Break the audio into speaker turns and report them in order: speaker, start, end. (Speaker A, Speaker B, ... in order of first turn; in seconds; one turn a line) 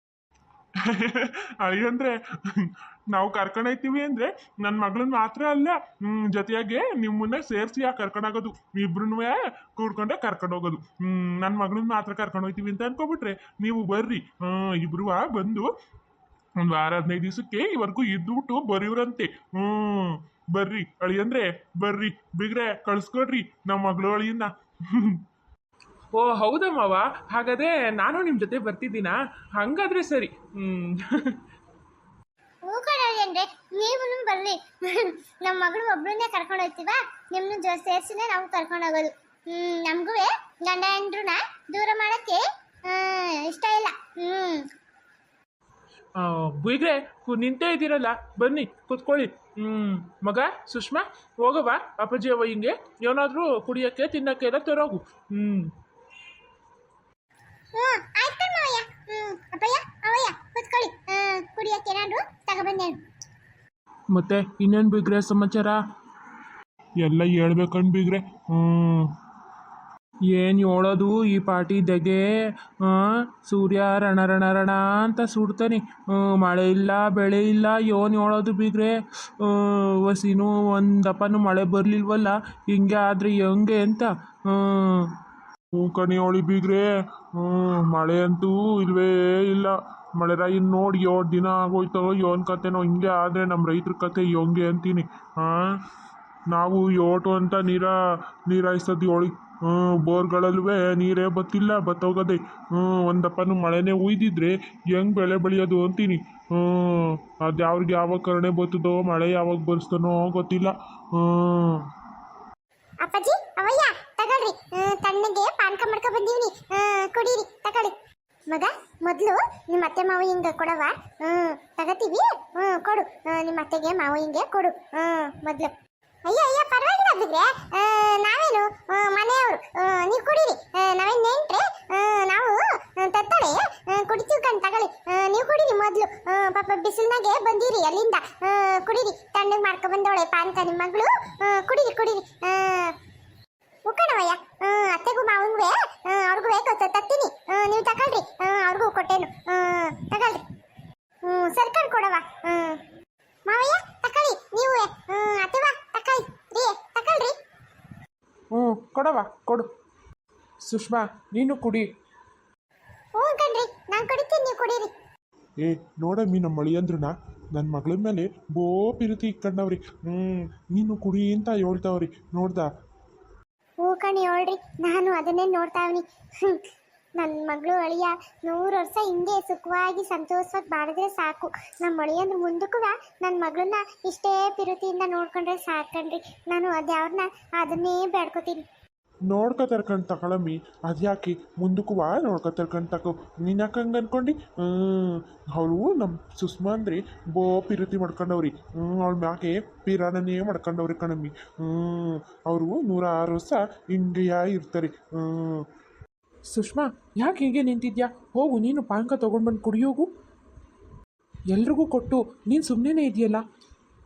Speaker A: 0.8-15.7
Speaker A: 16.6-25.2
Speaker B: 26.1-31.4
Speaker C: 32.7-44.7
Speaker B: 46.2-55.7
Speaker C: 57.8-63.0
Speaker B: 64.1-65.8
Speaker A: 67.0-69.1
Speaker B: 70.3-85.1
Speaker A: 85.8-95.8
Speaker A: 96.5-111.9
Speaker C: 113.0-118.0
Speaker C: 118.5-125.7
Speaker C: 126.2-143.0
Speaker C: 143.9-150.4
Speaker C: 151.2-152.8
Speaker C: 153.5-157.3
Speaker B: 158.5-159.7
Speaker B: 160.7-161.9
Speaker C: 163.2-164.9
Speaker A: 165.6-172.7
Speaker C: 173.8-176.6
Speaker C: 177.2-188.6
Speaker A: 189.3-205.7
Speaker B: 206.5-210.1
Speaker B: 211.5-213.4